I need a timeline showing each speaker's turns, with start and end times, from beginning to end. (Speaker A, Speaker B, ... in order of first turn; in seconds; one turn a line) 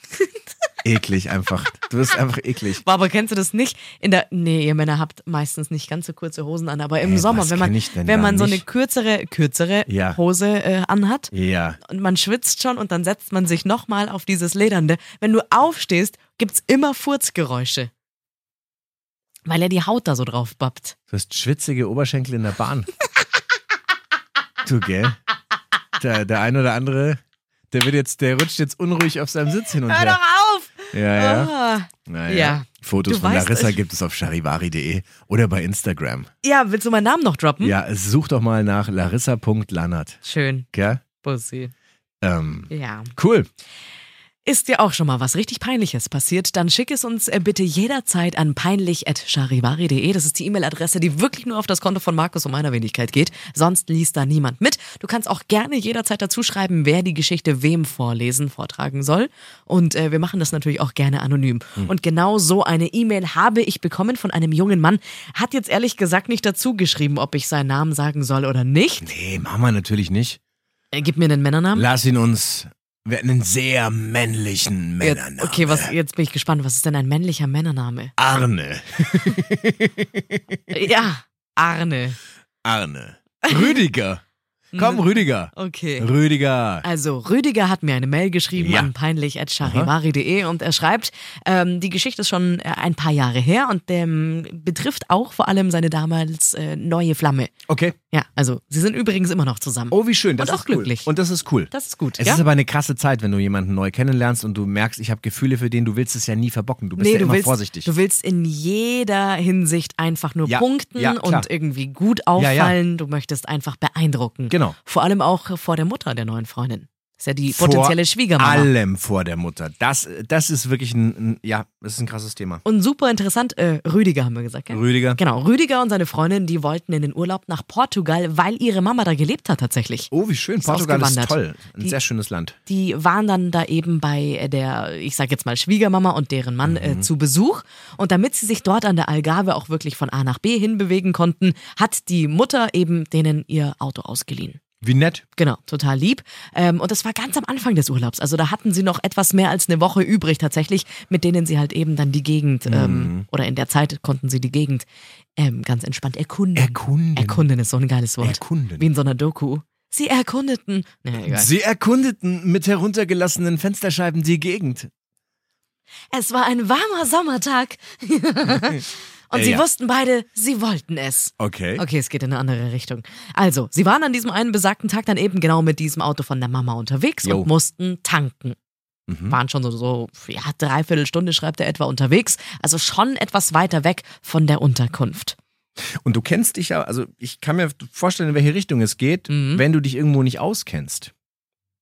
Speaker A: 0.8-2.8
Speaker B: 2.8-11.3
Speaker A: 7.0-8.6
Speaker A: 9.9-10.2
Speaker A: 11.3-11.8
Speaker B: 11.8-17.9
Speaker B: 19.4-20.9
Speaker A: 21.1-22.9
Speaker A: 24.6-25.2
Speaker A: 26.0-27.2
Speaker A: 27.7-30.2
Speaker B: 29.9-33.8
Speaker A: 30.9-31.5
Speaker A: 32.1-36.3
Speaker B: 36.4-37.8
Speaker A: 37.6-40.2
Speaker B: 40.2-40.7
Speaker A: 40.7-41.0
Speaker B: 41.2-41.7
Speaker A: 42.2-43.5
Speaker B: 42.7-43.1
Speaker B: 44.4-69.1
Speaker A: 69.0-70.4
Speaker B: 70.9-71.9
Speaker A: 71.8-75.9
Speaker B: 75.0-78.1
Speaker A: 78.2-80.4
Speaker B: 80.7-82.2
Speaker A: 82.6-84.2
Speaker B: 84.7-86.1
Speaker A: 84.8-86.9
Speaker B: 86.8-97.5
Speaker A: 88.6-88.9
Speaker A: 89.6-89.9
Speaker A: 97.7-98.0
Speaker B: 98.1-101.1
Speaker A: 99.9-107.9
Speaker B: 101.7-102.4
Speaker B: 107.0-118.7
Speaker A: 110.5-111.5
Speaker A: 112.3-112.8
Speaker A: 114.5-114.8
Speaker A: 117.5-122.6
Speaker B: 122.7-132.0
Speaker A: 124.7-125.2
Speaker A: 130.1-132.6
Speaker B: 132.7-144.6
Speaker A: 136.6-137.1
Speaker A: 144.8-145.2
Speaker B: 145.4-154.9
Speaker A: 152.7-153.3
Speaker B: 155.4-161.5
Speaker A: 156.6-157.4
Speaker A: 158.2-158.8
Speaker A: 161.2-164.9
Speaker B: 166.1-178.6
Speaker A: 168.5-168.8
Speaker A: 169.3-169.7
Speaker A: 171.4-171.8
Speaker A: 177.2-177.5
Speaker A: 179.1-179.4
Speaker B: 179.3-185.4
Speaker A: 186.0-191.1
Speaker B: 189.3-189.6